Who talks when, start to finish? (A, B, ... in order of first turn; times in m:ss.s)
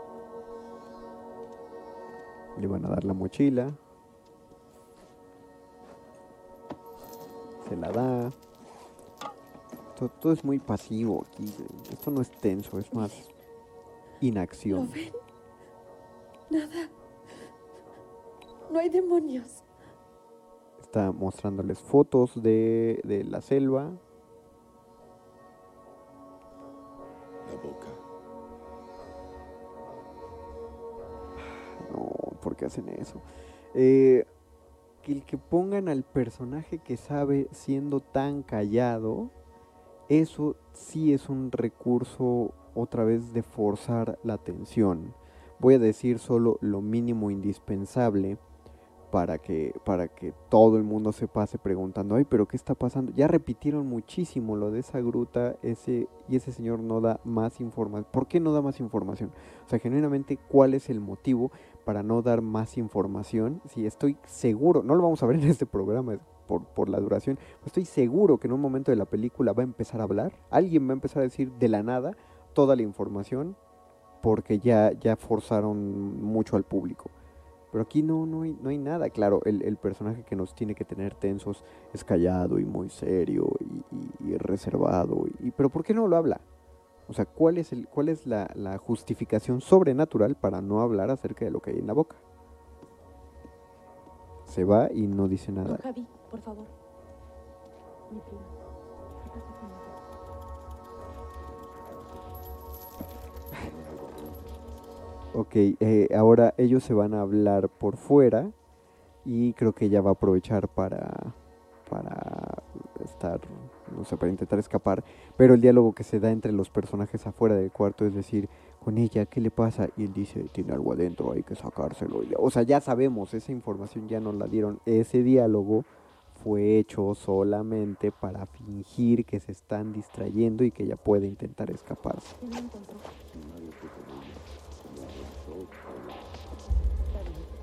0:02.6-0:03.8 A
0:07.6-0:08.4 A
0:10.0-0:13.3 A
0:14.2-0:15.0 A
0:14.7-0:15.1 B
0:16.5-0:16.9 B
0:18.7-0:19.6 B
0:20.8-0:24.0 A
0:27.4-0:28.0 C
0:31.4-0:34.3 A
0:35.0-0:39.3 A
0:40.1-0:48.4 A
0:49.1-1:13.6 A
1:14.2-1:17.1 A
1:17.7-1:26.4 A
1:27.1-1:32.2 A
1:34.5-1:35.8 A
1:35.6-1:36.7 D
1:38.1-1:38.5 D
1:39.3-1:39.9 D
1:43.6-1:44.4 C
1:45.3-1:48.5 A
1:49.2-1:51.4 A
1:51.9-2:12.3 A
2:12.4-2:13.1 D
2:13.3-2:16.4 C
2:17.1-2:17.5 D